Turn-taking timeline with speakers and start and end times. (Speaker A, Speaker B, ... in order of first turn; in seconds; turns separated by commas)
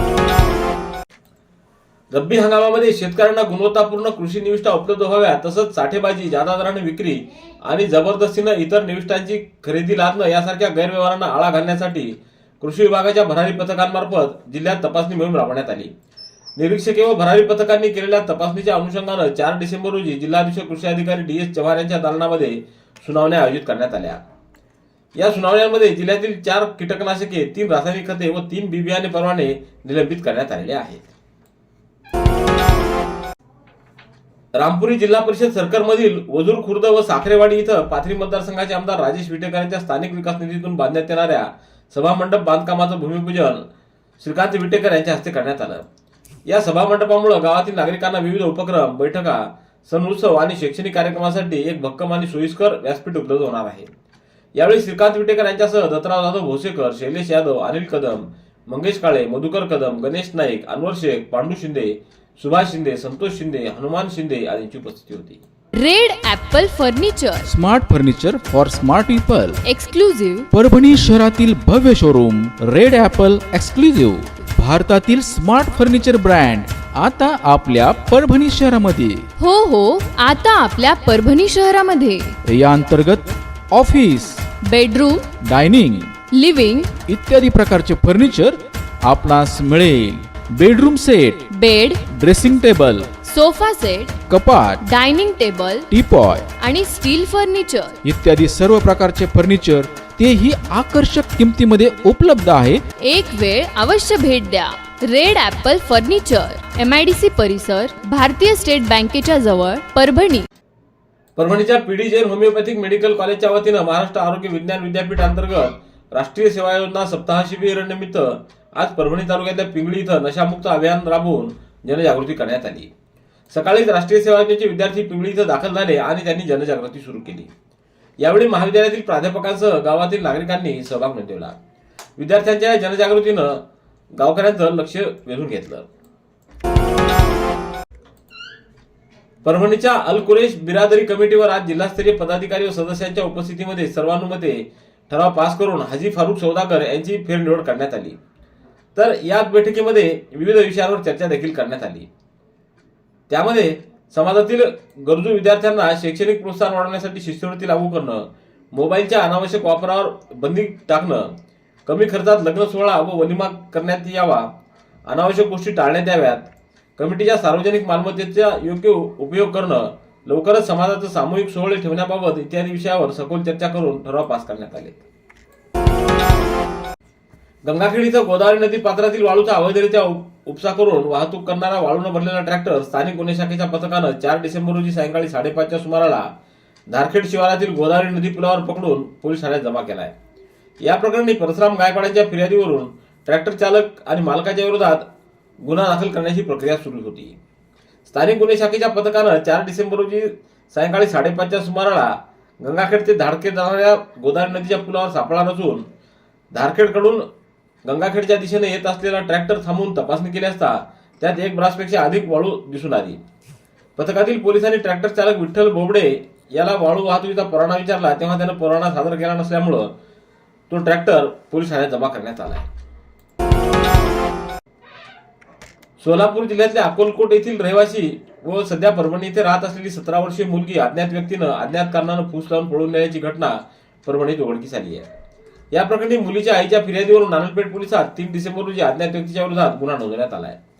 Speaker A: 2.1-15.9, Speaker A: 16.6-24.2, Speaker A: 25.1-31.1, Speaker A: 34.5-43.6, Speaker A: 44.2-45.8, Speaker A: 46.5-53.9, Speaker A: 54.5-65.4, Speaker B: 65.8-67.5, Speaker C: 67.4-69.6, Speaker B: 69.6-70.5, Speaker C: 70.5-79.2, Speaker B: 79.4-82.3, Speaker C: 82.5-84.5, Speaker B: 84.6-85.3, Speaker C: 85.4-86.1, Speaker B: 86.3-86.9, Speaker C: 87.0-91.4, Speaker B: 91.5-92.0, Speaker C: 92.1-93.1, Speaker B: 93.2-94.1, Speaker C: 94.3-94.8, Speaker B: 94.8-95.9, Speaker C: 95.9-96.5, Speaker B: 96.6-98.0, Speaker C: 98.0-102.8, Speaker B: 103.0-110.5, Speaker A: 111.3-122.9, Speaker A: 123.5-127.5, Speaker A: 128.2-131.6, Speaker A: 132.2-133.6, Speaker A: 134.1-135.9, Speaker A: 139.4-148.2, Speaker A: 148.9-152.1, Speaker A: 153.3-161.3, Speaker A: 161.8-164.5, Speaker A: 165.1-175.0, Speaker A: 177.6-186.3, Speaker A: 186.9-190.1, Speaker A: 190.8-195.1, Speaker A: 195.6-197.3, Speaker A: 198.1-205.8, Speaker A: 206.5-207.2, Speaker A: 207.8-213.2, Speaker A: 214.0-219.9, Speaker A: 220.7-222.7, Speaker A: 226.0-235.1, Speaker A: 235.7-240.6